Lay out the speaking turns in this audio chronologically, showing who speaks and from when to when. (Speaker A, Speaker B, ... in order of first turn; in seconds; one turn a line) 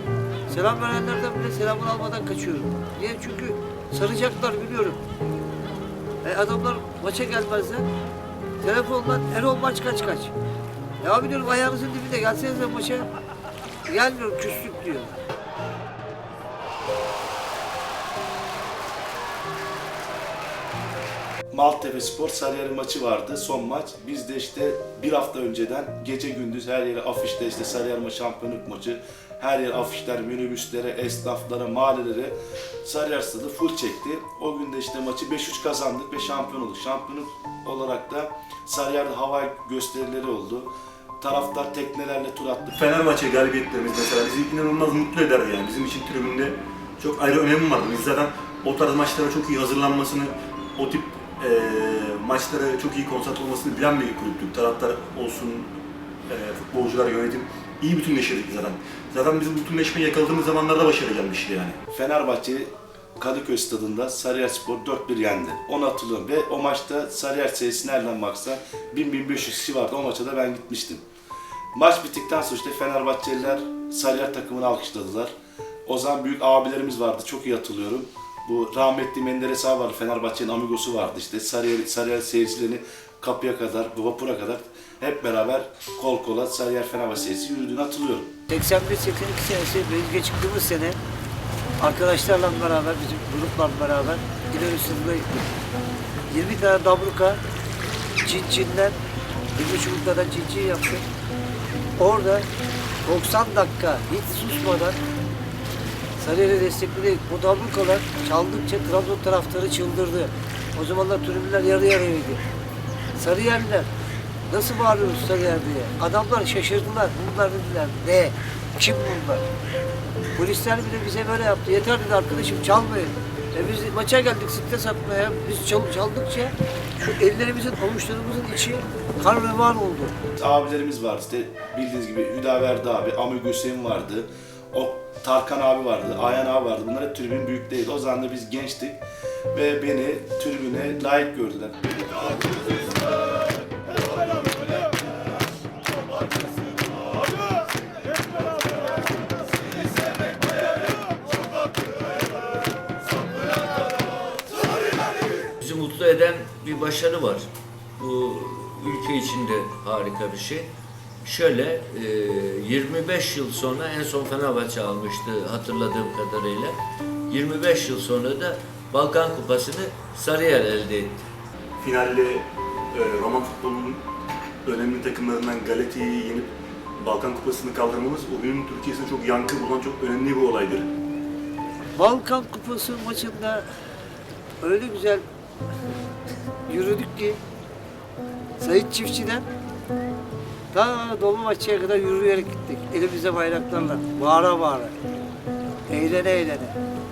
Speaker A: 0.5-5.0
Speaker A: 6.2-7.9
Speaker A: 8.6-10.3
Speaker A: 11.0-13.1
Speaker A: 13.9-15.2
Speaker B: 21.5-42.7
Speaker C: 42.7-55.7
Speaker C: 56.3-61.8
Speaker B: 61.9-71.0
Speaker B: 71.7-75.3
Speaker B: 75.9-88.3
Speaker A: 88.5-91.0
Speaker A: 91.8-95.5
Speaker A: 96.3-97.4
Speaker A: 98.2-99.0
Speaker A: 99.5-101.0
Speaker A: 102.0-102.5
Speaker A: 103.0-105.0
Speaker A: 106.2-112.4
Speaker A: 113.2-113.9
Speaker A: 114.5-119.5
Speaker A: 120.4-130.1
Speaker B: 130.4-142.2
Speaker D: 155.3-157.5
Speaker D: 158.0-160.7
Speaker D: 161.2-166.8
Speaker D: 167.3-171.2
Speaker C: 171.8-174.0
Speaker C: 174.7-180.9
Speaker A: 181.9-183.7
Speaker A: 184.6-185.2
Speaker A: 186.7-187.4
Speaker A: 188.6-189.5
Speaker A: 190.7-194.9
Speaker A: 195.9-196.8